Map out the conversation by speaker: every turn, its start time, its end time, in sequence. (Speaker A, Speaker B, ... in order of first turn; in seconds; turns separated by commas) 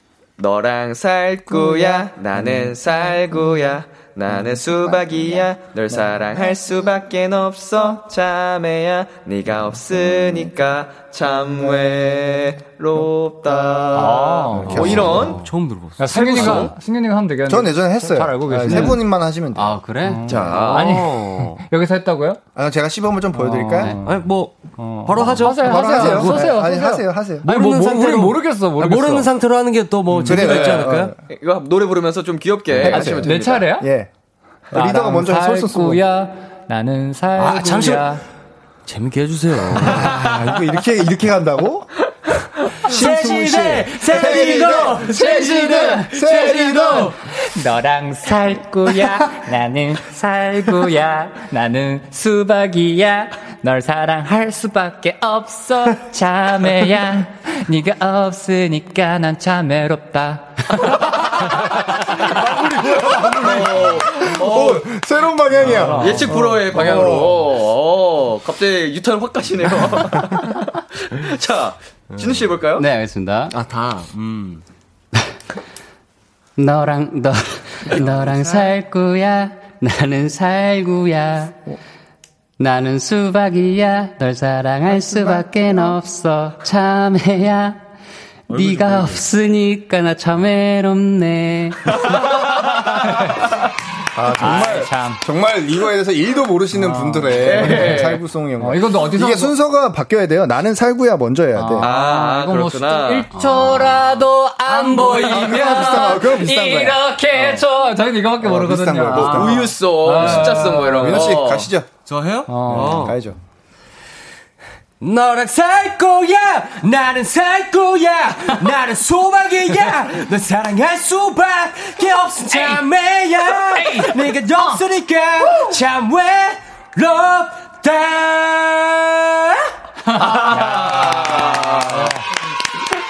Speaker A: 0.4-15.4, Speaker B: 13.9-15.2, Speaker C: 14.6-15.2, Speaker D: 14.7-16.7, Speaker B: 16.0-19.0, Speaker A: 16.1-16.7, Speaker C: 17.5-19.8, Speaker E: 19.5-20.4, Speaker B: 20.0-22.4, Speaker A: 20.3-20.9, Speaker D: 20.4-21.6, Speaker C: 22.5-23.9, Speaker B: 23.3-29.3, Speaker D: 24.0-26.6, Speaker C: 25.6-27.4, Speaker D: 27.4-31.1, Speaker B: 30.1-30.4, Speaker C: 30.2-31.1, Speaker A: 30.5-33.6, Speaker C: 32.7-34.1, Speaker B: 32.9-33.9, Speaker C: 34.7-36.0, Speaker B: 34.7-38.2, Speaker D: 37.4-38.2, Speaker D: 38.9-40.2, Speaker C: 39.8-41.9, Speaker C: 42.8-47.1, Speaker D: 42.8-47.2, Speaker B: 47.4-61.1, Speaker D: 62.2-63.8, Speaker C: 62.8-67.4, Speaker A: 63.1-64.9, Speaker B: 65.7-66.2, Speaker D: 65.7-66.0, Speaker A: 66.0-72.8, Speaker D: 72.1-72.4, Speaker E: 72.8-73.5, Speaker D: 73.5-74.6, Speaker E: 76.5-81.7, Speaker D: 77.9-78.7, Speaker E: 82.6-87.8, Speaker E: 88.5-92.5, Speaker D: 88.5-89.2, Speaker C: 94.1-101.9, Speaker B: 94.3-95.2, Speaker B: 96.7-99.5, Speaker A: 97.4-98.2, Speaker B: 101.5-111.2, Speaker A: 101.8-103.3, Speaker E: 103.3-104.1, Speaker D: 104.7-105.6, Speaker C: 105.1-107.0, Speaker C: 108.4-111.9, Speaker A: 109.1-111.7, Speaker D: 112.0-113.2, Speaker B: 112.5-113.1, Speaker C: 112.7-113.4, Speaker D: 115.0-129.7, Speaker B: 122.5-122.8, Speaker B: 123.6-124.8, Speaker B: 130.1-132.2, Speaker A: 130.1-132.2